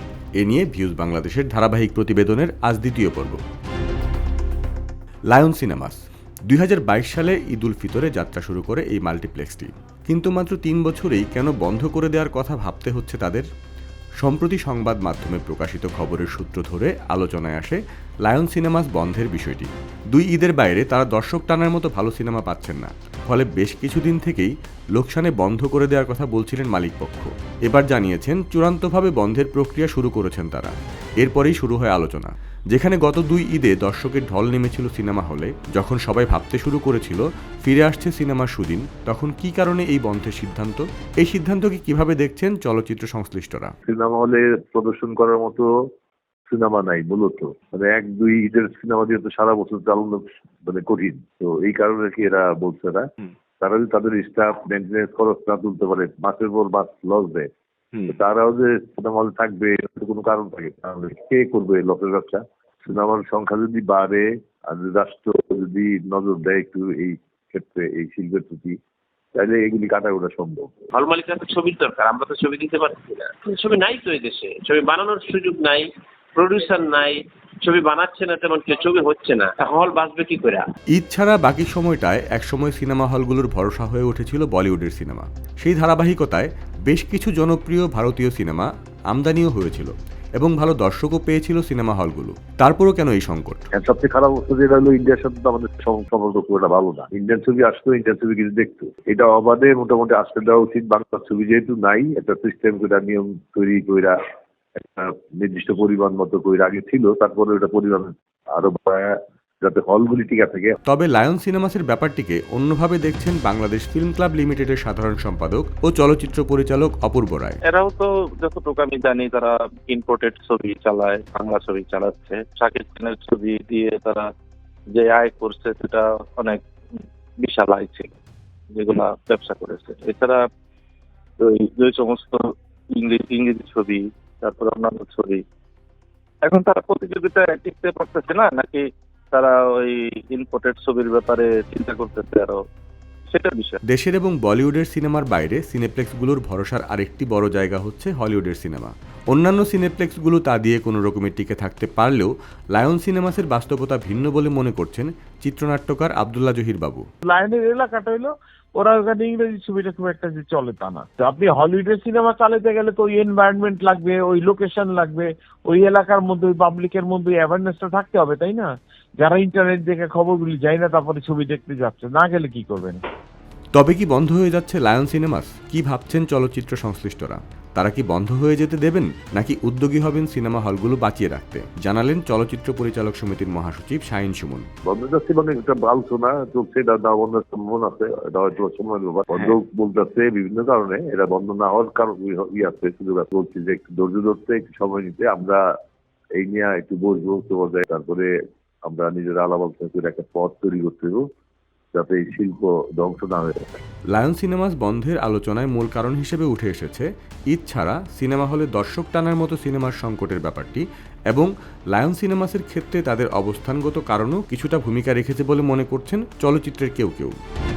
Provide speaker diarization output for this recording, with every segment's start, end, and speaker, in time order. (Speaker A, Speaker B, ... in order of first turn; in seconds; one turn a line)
Speaker A: 0.4-3.4
Speaker A: 5.3-13.5
Speaker A: 14.2-43.7
Speaker B: 43.8-45.7
Speaker B: 46.5-53.1
Speaker B: 53.6-57.5
Speaker B: 58.1-68.8
Speaker B: 69.3-70.9
Speaker C: 70.9-80.7
Speaker A: 81.0-93.6
Speaker B: 93.7-104.2
Speaker B: 104.8-110.8
Speaker A: 110.9-117.6
Speaker D: 117.7-124.3
Speaker D: 124.9-126.6
Speaker D: 127.4-128.1
Speaker D: 128.8-130.4
Speaker D: 131.4-135.4
Speaker D: 136.4-142.6
Speaker D: 143.3-143.8
Speaker A: 143.9-157.0
Speaker E: 157.2-173.0
Speaker A: 173.8-184.7
Speaker B: 184.8-195.7
Speaker B: 196.4-198.3
Speaker B: 198.8-201.2
Speaker B: 201.9-203.8
Speaker A: 204.1-217.4